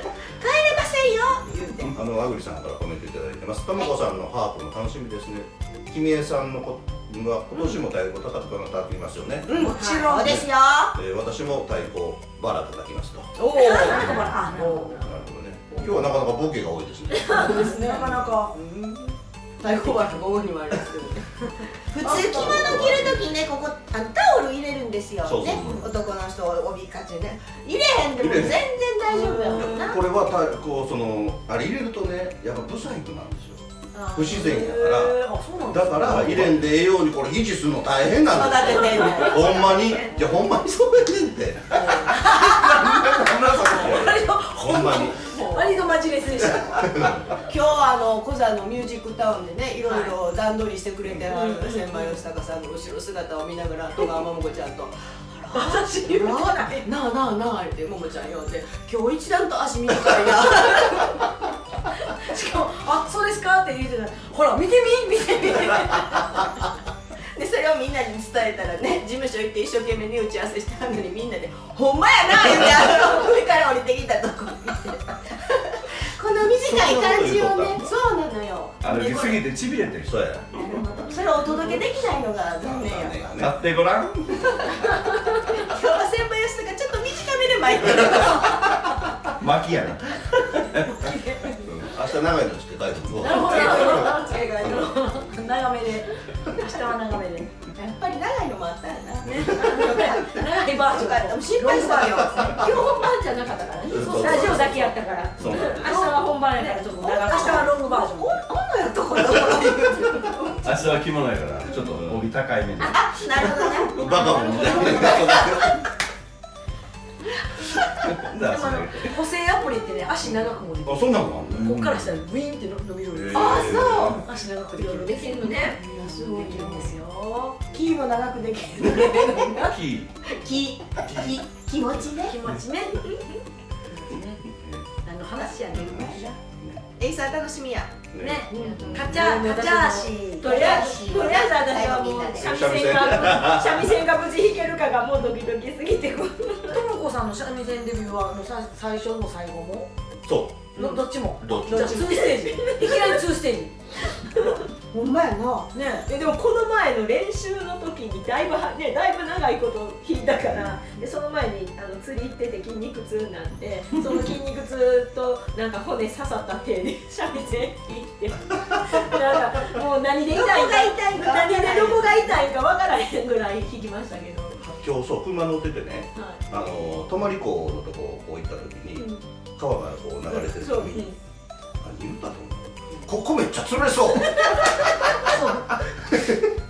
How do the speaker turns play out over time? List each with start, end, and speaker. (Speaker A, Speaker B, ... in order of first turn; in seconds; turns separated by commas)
Speaker A: 0.4-1.9, Speaker B: 1.8-13.3, Speaker A: 9.5-11.0, Speaker C: 9.6-10.4, Speaker D: 9.8-10.1, Speaker A: 13.4-15.0, Speaker C: 13.6-15.0, Speaker D: 13.7-14.2, Speaker B: 15.0-17.4, Speaker A: 15.7-16.0, Speaker A: 17.3-30.0, Speaker D: 17.3-17.6, Speaker C: 17.5-18.6, Speaker B: 22.0-23.3, Speaker B: 25.2-25.8, Speaker E: 25.5-25.9, Speaker B: 28.2-28.6, Speaker D: 29.1-29.9, Speaker B: 29.4-45.2, Speaker C: 33.9-36.2, Speaker E: 36.0-36.7, Speaker A: 38.3-39.5, Speaker D: 39.4-40.1, Speaker A: 41.7-42.3, Speaker C: 42.1-47.1, Speaker E: 43.2-43.6, Speaker A: 45.2-45.9, Speaker B: 46.6-47.3, Speaker A: 47.4-61.2, Speaker D: 49.8-50.1, Speaker D: 51.3-52.2, Speaker C: 55.5-56.9, Speaker C: 62.1-66.5, Speaker A: 67.3-79.5, Speaker B: 76.6-78.0, Speaker E: 78.8-80.2, Speaker B: 80.0-80.4, Speaker A: 80.5-83.3, Speaker B: 82.6-83.6, Speaker E: 83.4-84.7, Speaker A: 85.5-88.8, Speaker E: 89.4-91.0, Speaker C: 90.9-91.6, Speaker B: 91.6-94.1, Speaker D: 93.2-95.2, Speaker C: 93.2-97.5, Speaker A: 93.5-94.2, Speaker A: 97.8-103.0, Speaker C: 99.6-102.6, Speaker D: 102.6-107.8, Speaker A: 103.8-104.8, Speaker B: 103.9-104.7, Speaker C: 104.2-104.9, Speaker B: 105.4-105.9, Speaker C: 105.8-108.4, Speaker A: 107.0-110.7, Speaker E: 110.6-113.5, Speaker B: 111.9-112.3, Speaker A: 112.8-115.7, Speaker B: 113.9-115.8, Speaker E: 114.3-114.7, Speaker E: 118.1-119.1, Speaker C: 118.3-127.6, Speaker B: 120.9-121.9, Speaker E: 121.6-122.0, Speaker B: 123.1-124.2, Speaker A: 123.3-124.2, Speaker A: 124.8-126.9, Speaker D: 125.0-125.8, Speaker B: 126.4-126.9, Speaker A: 127.7-129.7, Speaker E: 129.1-130.1, Speaker A: 130.3-132.4, Speaker E: 131.1-131.3, Speaker C: 132.3-133.1, Speaker C: 133.9-134.4, Speaker B: 134.6-134.9, Speaker C: 135.0-136.3, Speaker A: 135.4-136.4, Speaker B: 136.6-136.8, Speaker A: 137.0-138.0, Speaker B: 138.1-139.1, Speaker C: 138.2-141.1, Speaker A: 138.5-142.7, Speaker D: 138.5-146.8, Speaker B: 142.4-143.9, Speaker C: 146.7-149.9, Speaker B: 150.3-150.7, Speaker C: 150.8-153.8, Speaker D: 150.8-151.1, Speaker B: 151.4-151.7, Speaker A: 151.4-152.6, Speaker D: 151.9-153.2, Speaker D: 154.1-154.6, Speaker A: 154.4-155.7, Speaker C: 155.7-156.1, Speaker D: 156.1-174.6, Speaker A: 170.3-172.4, Speaker B: 174.6-181.1, Speaker D: 176.2-176.4, Speaker D: 179.0-179.2, Speaker D: 180.3-181.2, Speaker B: 181.8-185.3, Speaker D: 184.4-184.8, Speaker C: 185.2-185.7, Speaker B: 186.1-186.4